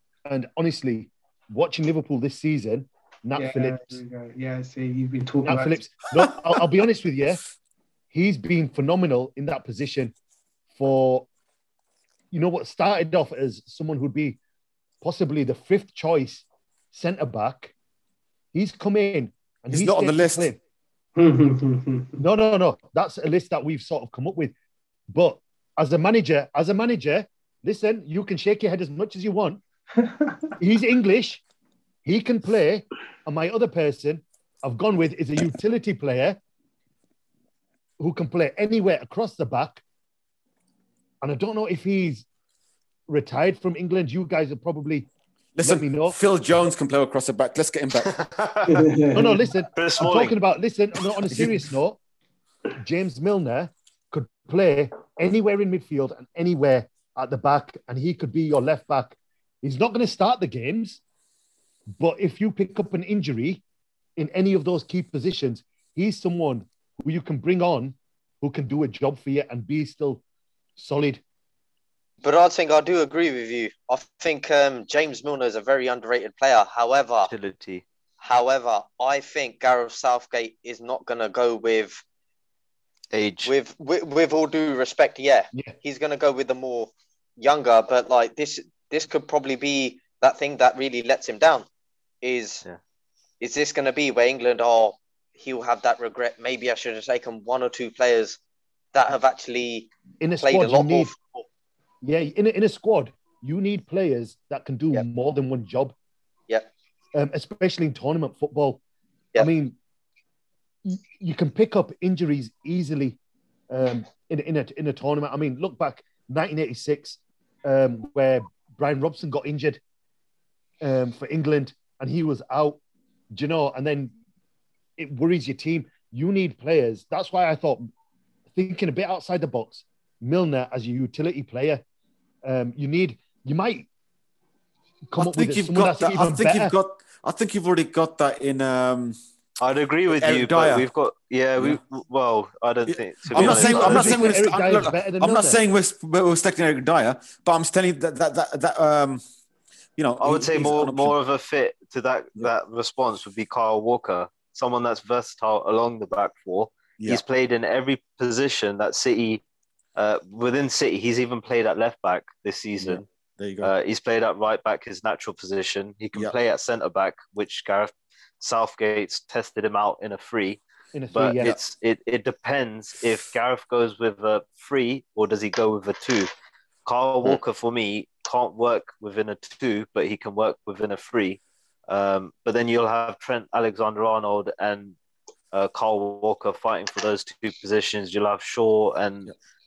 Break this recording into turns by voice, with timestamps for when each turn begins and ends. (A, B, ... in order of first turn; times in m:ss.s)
0:00.3-0:04.0 A
0:03.4-0:05.9 B
0:05.4-0:07.4 A
0:08.1-0:10.1 A
0:10.8-0:11.3 A
0:12.3-0:14.4 A
0:15.0-0:17.7 A
0:18.5-0:20.6 A
0:19.7-0:20.5 C
0:21.2-0:22.2 B
0:22.2-0:24.5 A
0:25.1-0:29.6 A
0:30.6-0:31.4 A
0:32.0-0:36.4 A
0:38.0-0:39.8 A
0:41.2-0:42.3 A
0:43.1-0:45.1 A
0:45.6-0:48.1 C
0:45.6-0:46.2 A
0:48.0-0:48.9 D
0:48.7-0:49.5 B
0:49.1-0:52.0 A
0:49.7-0:50.4 D
0:51.3-0:51.6 C
0:52.8-1:01.0 A
1:01.9-1:03.6 A
1:04.2-1:10.2 A
1:10.8-1:11.2 A
1:12.2-1:17.3 E
1:17.3-1:17.8 D
1:18.2-1:22.0 E
1:23.1-1:23.5 D
1:23.4-1:31.7 E
1:32.2-1:32.6 E
1:33.4-1:38.4 E
1:38.9-1:41.5 E
1:40.2-1:41.1 A
1:42.0-1:46.0 A
1:47.1-1:48.8 A
1:49.4-1:49.8 A
1:50.8-1:53.2 A
1:53.7-1:59.8 A
2:00.8-2:02.8 A
2:03.3-2:04.1 A
2:05.0-2:07.9 A
2:08.6-2:11.8 A
2:12.4-2:13.9 A
2:15.1-2:16.7 A
2:15.2-2:19.2 C
2:19.6-2:24.2 D
2:20.2-2:20.9 C
2:22.9-2:29.2 C
2:23.3-2:25.6 A
2:30.0-2:31.2 C
2:30.2-2:39.4 D
2:40.0-2:43.1 D
2:42.8-2:43.7 C
2:43.6-2:50.6 D
2:50.9-2:51.6 A
2:51.1-2:56.3 D
2:56.8-3:05.0 D
3:05.5-3:09.3 D